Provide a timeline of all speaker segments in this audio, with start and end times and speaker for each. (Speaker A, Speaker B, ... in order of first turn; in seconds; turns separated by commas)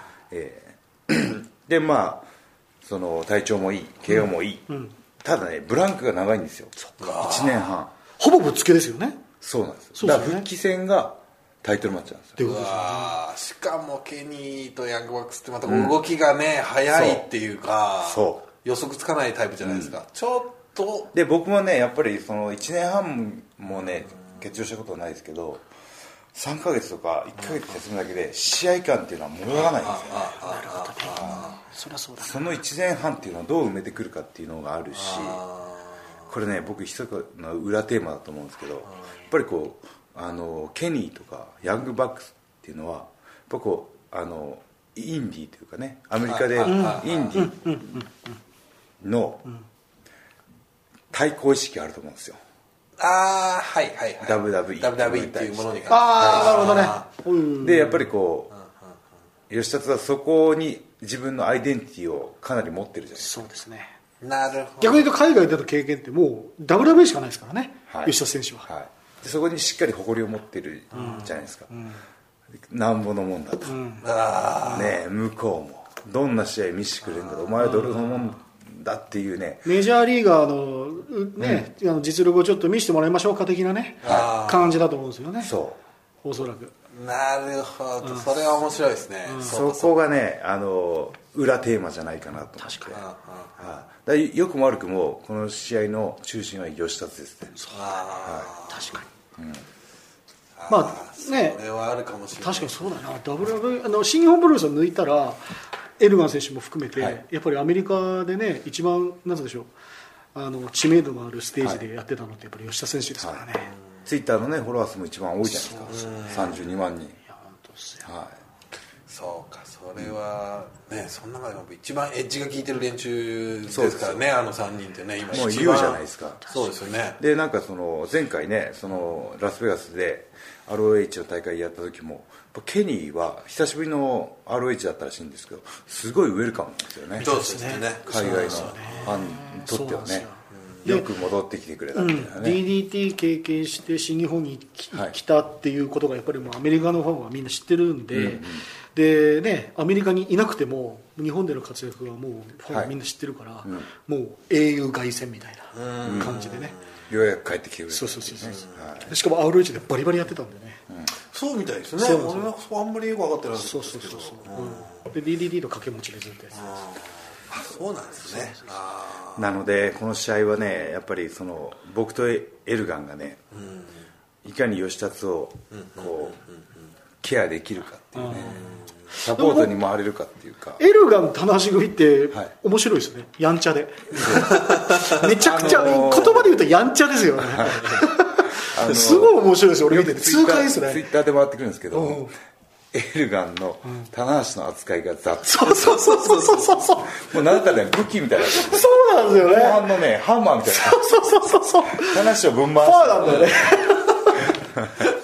Speaker A: 0.3-2.3, Speaker A: 2.8-4.7, Speaker A: 5.2-7.9, Speaker B: 7.0-7.6, Speaker C: 8.2-9.2, Speaker A: 9.4-12.4, Speaker C: 9.9-10.4, Speaker C: 12.4-13.2, Speaker B: 12.4-21.1, Speaker A: 15.7-16.0, Speaker A: 16.9-17.2, Speaker A: 18.0-18.4, Speaker A: 19.6-19.9, Speaker A: 21.1-25.7, Speaker A: 26.3-30.4, Speaker B: 29.6-31.6, Speaker C: 30.4-32.4, Speaker A: 32.2-35.4, Speaker B: 34.9-35.9, Speaker A: 36.3-47.8, Speaker B: 46.2-47.5, Speaker C: 46.7-48.1, Speaker A: 49.0-49.5, Speaker A: 51.1-52.4, Speaker B: 53.0-57.0, Speaker A: 54.2-56.9, Speaker C: 55.9-58.0, Speaker A: 57.6-58.5, Speaker A: 59.5-63.4, Speaker C: 63.2-63.9, Speaker B: 64.2-65.1, Speaker C: 64.8-68.7, Speaker A: 67.9-71.7, Speaker C: 70.9-72.0, Speaker A: 72.7-73.8, Speaker C: 73.7-74.0, Speaker B: 74.0-75.0, Speaker A: 74.7-79.7, Speaker B: 77.2-77.8, Speaker C: 79.6-85.5, Speaker A: 81.4-81.7, Speaker B: 84.0-84.7, Speaker A: 84.0-84.3, Speaker A: 85.4-85.8, Speaker C: 86.2-86.7, Speaker B: 86.9-90.0, Speaker A: 89.4-93.0, Speaker C: 92.6-92.9, Speaker B: 92.9-93.7, Speaker A: 93.6-97.6, Speaker C: 97.6-98.0, Speaker B: 97.7-98.9, Speaker A: 98.2-98.5, Speaker C: 98.7-99.1, Speaker A: 99.4-99.6, Speaker B: 100.6-102.9, Speaker C: 100.7-101.6, Speaker C: 102.4-105.4, Speaker C: 106.0-109.7, Speaker C: 110.3-113.7, Speaker A: 113.2-113.5, Speaker A: 114.0-117.2, Speaker C: 115.6-116.0, Speaker B: 115.9-116.6, Speaker C: 117.3-118.1, Speaker A: 118.0-118.3, Speaker B: 119.1-127.2, Speaker A: 123.7-124.2, Speaker A: 125.3-126.5, Speaker A: 127.2-137.3, Speaker B: 137.2-139.1, Speaker C: 137.2-141.1, Speaker A: 138.1-140.3, Speaker A: 140.8-142.6, Speaker C: 141.9-156.8, Speaker A: 148.1-148.6, Speaker A: 152.7-152.9, Speaker B: 155.7-156.8, Speaker A: 156.0-156.4, Speaker A: 157.1-159.1, Speaker C: 157.9-160.8, Speaker B: 161.3-164.9, Speaker C: 162.0-162.5, Speaker C: 163.6-166.8, Speaker B: 166.6-169.5, Speaker A: 169.3-173.4, Speaker B: 173.5-173.9, Speaker A: 174.4-176.4, Speaker B: 175.7-176.6, Speaker A: 177.2-178.6, Speaker C: 178.2-178.7, Speaker B: 178.3-178.8, Speaker A: 179.1-180.8, Speaker C: 179.2-179.8, Speaker C: 180.8-191.1, Speaker A: 184.2-184.6, Speaker B: 184.6-186.0, Speaker A: 185.4-186.5, Speaker A: 187.4-192.3, Speaker C: 191.9-192.3, Speaker A: 192.9-196.1, Speaker C: 195.4-197.6, Speaker B: 195.8-196.9, Speaker A: 197.1-201.1, Speaker C: 198.4-199.9, Speaker C: 200.7-202.2, Speaker A: 201.9-203.6, Speaker C: 202.8-204.4, Speaker A: 204.8-205.0